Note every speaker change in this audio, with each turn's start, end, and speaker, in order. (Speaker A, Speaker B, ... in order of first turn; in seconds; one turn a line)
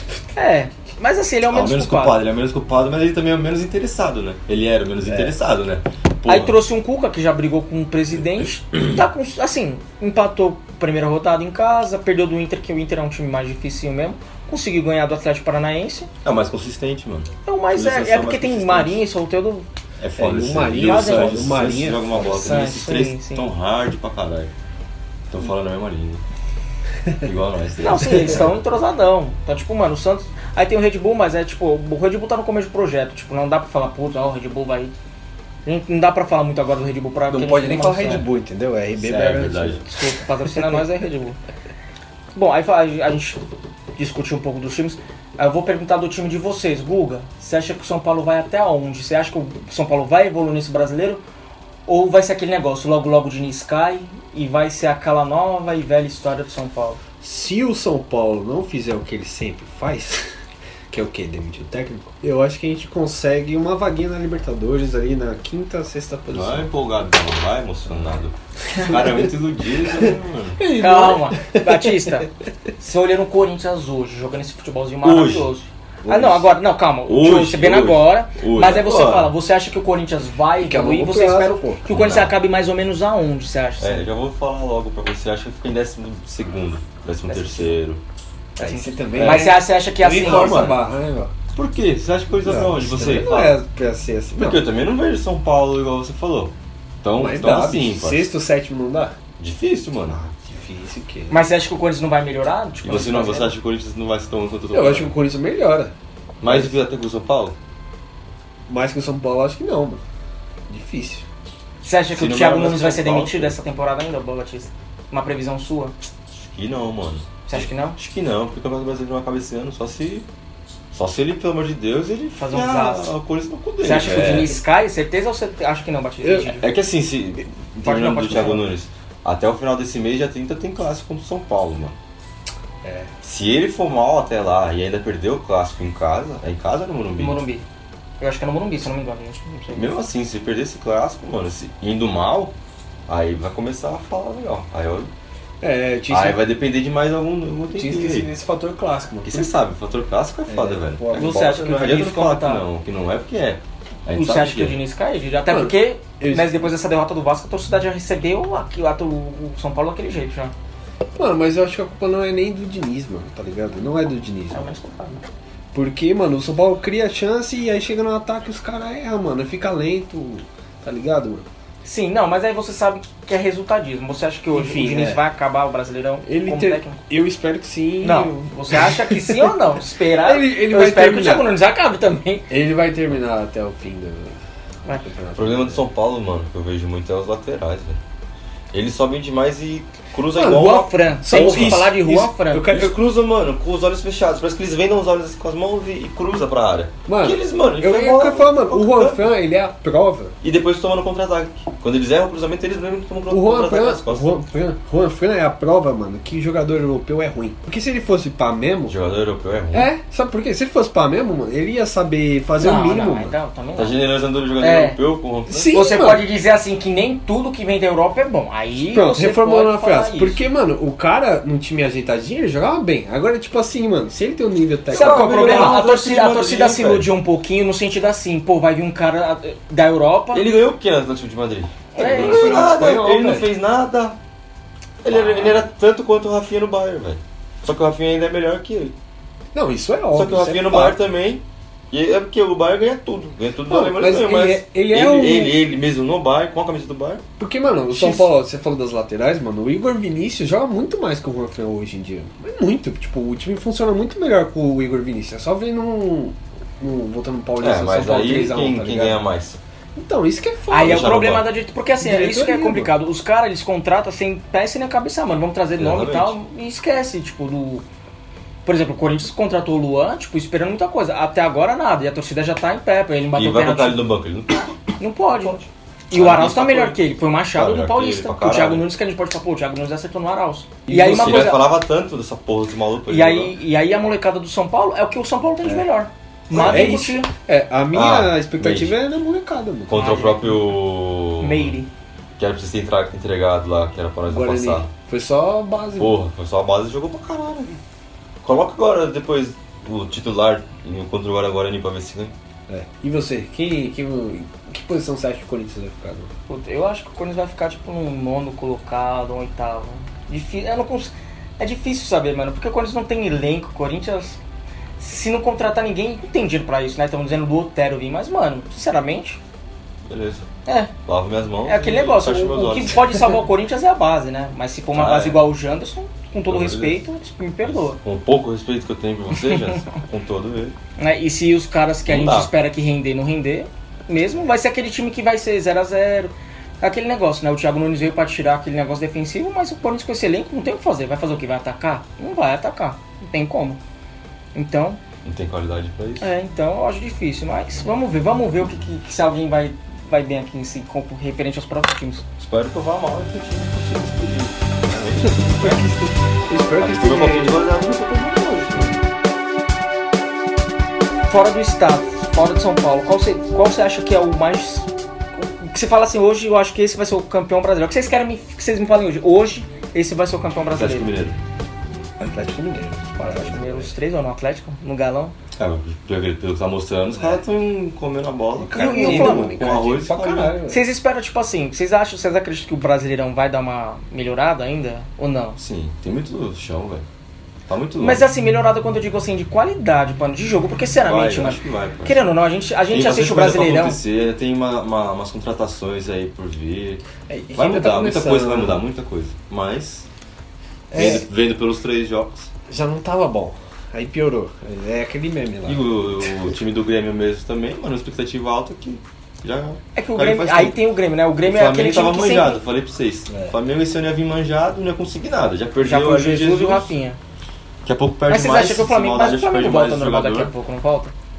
Speaker A: 0.3-2.2
Speaker B: 1.5-6.6
Speaker C: 5.0-5.4
Speaker A: 6.2-16.1
Speaker B: 16.2-19.0
Speaker A: 17.4-19.6
Speaker B: 20.0-24.5
Speaker C: 20.2-22.7
Speaker A: 20.8-21.5
Speaker A: 22.3-23.5
Speaker B: 25.3-26.2
Speaker B: 27.2-28.5
Speaker A: 27.8-34.9
Speaker A: 35.6-38.2
Speaker C: 37.3-39.8
Speaker B: 38.9-39.8
Speaker A: 39.9-41.4
Speaker A: 42.3-43.4
Speaker A: 44.0-51.2
Speaker A: 51.9-57.0
Speaker C: 57.2-60.2
Speaker C: 60.9-66.7
Speaker B: 66.3-70.6
Speaker C: 70.6-72.2
Speaker A: 70.7-84.0
Speaker B: 75.0-75.5
Speaker C: 76.0-76.5
Speaker B: 77.0-79.3
Speaker C: 80.6-81.8
Speaker B: 81.9-82.3
Speaker B: 83.8-88.0
Speaker A: 87.3-87.7
Speaker C: 88.6-91.3
Speaker A: 88.6-90.8
Speaker B: 89.1-90.8
Speaker B: 91.5-93.6
Speaker C: 92.4-94.6
Speaker B: 94.3-98.3
Speaker C: 97.2-99.2
Speaker B: 99.4-100.2
Speaker C: 100.1-101.4
Speaker A: 101.3-103.5
Speaker B: 102.8-105.1
Speaker C: 104.7-106.8
Speaker B: 106.4-107.5
Speaker C: 108.7-110.0
Speaker C: 110.7-111.2
Speaker A: 111.8-115.9
Speaker B: 112.1-113.5
Speaker B: 116.5-120.3
Speaker A: 117.5-118.0
Speaker B: 120.9-124.6
Speaker A: 122.4-123.1
Speaker A: 123.8-126.7
Speaker B: 126.2-131.9
Speaker A: 127.8-128.7
Speaker C: 132.8-133.1
Speaker B: 133.2-137.4
Speaker A: 137.2-137.6
Speaker A: 138.2-139.9
Speaker B: 139.7-142.5
Speaker B: 143.1-145.1
Speaker C: 145.6-146.4
Speaker B: 146.1-148.3
Speaker C: 147.7-149.5
Speaker B: 149.2-154.8
Speaker C: 150.5-151.4
Speaker A: 151.1-152.6
Speaker A: 154.1-160.5
Speaker C: 155.5-156.7
Speaker C: 161.2-164.7
Speaker A: 164.5-165.2
Speaker C: 165.7-171.5
Speaker A: 171.8-177.0
Speaker C: 174.5-175.2
Speaker C: 176.2-179.5
Speaker A: 178.0-182.5
Speaker C: 180.2-181.5
Speaker C: 182.5-184.4
Speaker C: 184.9-185.8
Speaker B: 185.3-188.0
Speaker B: 188.7-191.9
Speaker A: 190.3-192.7
Speaker C: 190.3-193.0
Speaker B: 192.6-199.2
Speaker C: 197.1-200.3
Speaker B: 200.4-204.3
Speaker C: 203.3-208.9
Speaker B: 208.9-209.9
Speaker C: 209.7-213.3
Speaker A: 212.6-214.0
Speaker B: 213.8-215.8
Speaker A: 214.6-215.0
Speaker C: 215.5-216.2
Speaker A: 215.7-220.4
Speaker C: 218.9-225.8
Speaker B: 224.9-227.1
Speaker A: 224.9-230.5
Speaker B: 230.3-234.2
Speaker A: 231.9-232.7
Speaker C: 232.0-233.5
Speaker B: 235.0-238.9
Speaker C: 235.1-235.6
Speaker C: 239.5-241.0
Speaker B: 240.1-247.2
Speaker C: 243.7-245.6
Speaker C: 247.4-259.2
Speaker B: 247.9-248.3
Speaker B: 257.6-259.6
Speaker C: 259.9-261.2
Speaker A: 260.7-267.9
Speaker B: 260.8-261.5
Speaker C: 262.0-262.9
Speaker B: 265.8-266.4
Speaker A: 268.6-274.0
Speaker B: 273.3-274.8
Speaker A: 275.0-281.6
Speaker B: 275.4-278.9
Speaker C: 280.9-281.6
Speaker B: 281.0-283.5
Speaker A: 283.1-287.3
Speaker B: 286.5-287.0
Speaker C: 286.5-290.0
Speaker B: 287.9-288.9
Speaker B: 289.9-291.8
Speaker A: 289.9-290.7
Speaker A: 291.4-291.9
Speaker B: 292.4-294.9
Speaker C: 294.3-296.2
Speaker B: 296.0-297.8
Speaker B: 298.4-302.3
Speaker C: 302.7-306.3
Speaker A: 306.5-314.4
Speaker A: 315.0-319.4
Speaker B: 320.1-320.5
Speaker A: 320.6-320.9
Speaker B: 321.0-323.1
Speaker A: 321.6-328.0
Speaker B: 324.9-325.5
Speaker B: 326.5-327.0
Speaker B: 327.6-330.8
Speaker A: 329.4-329.8
Speaker A: 331.0-343.8
Speaker B: 332.1-332.5
Speaker A: 344.5-345.0
Speaker B: 345.2-346.3
Speaker A: 346.2-352.2
Speaker B: 352.4-356.0
Speaker C: 355.2-357.6
Speaker B: 356.8-359.0
Speaker A: 361.3-371.1
Speaker B: 370.7-371.4
Speaker C: 372.2-373.9
Speaker A: 373.2-375.3
Speaker B: 375.6-380.6
Speaker C: 378.6-380.8
Speaker A: 378.7-379.6
Speaker A: 380.7-385.6
Speaker B: 385.6-387.0
Speaker B: 387.7-388.2
Speaker A: 388.0-394.0
Speaker B: 391.0-392.3
Speaker B: 392.9-397.0
Speaker C: 397.3-398.8
Speaker B: 397.5-400.1
Speaker C: 400.9-401.2
Speaker B: 400.9-402.5
Speaker C: 402.7-406.3
Speaker B: 405.6-410.8
Speaker A: 409.9-412.6
Speaker B: 411.4-416.9
Speaker C: 413.3-413.5
Speaker A: 415.8-417.2
Speaker B: 417.8-420.5
Speaker A: 418.3-421.1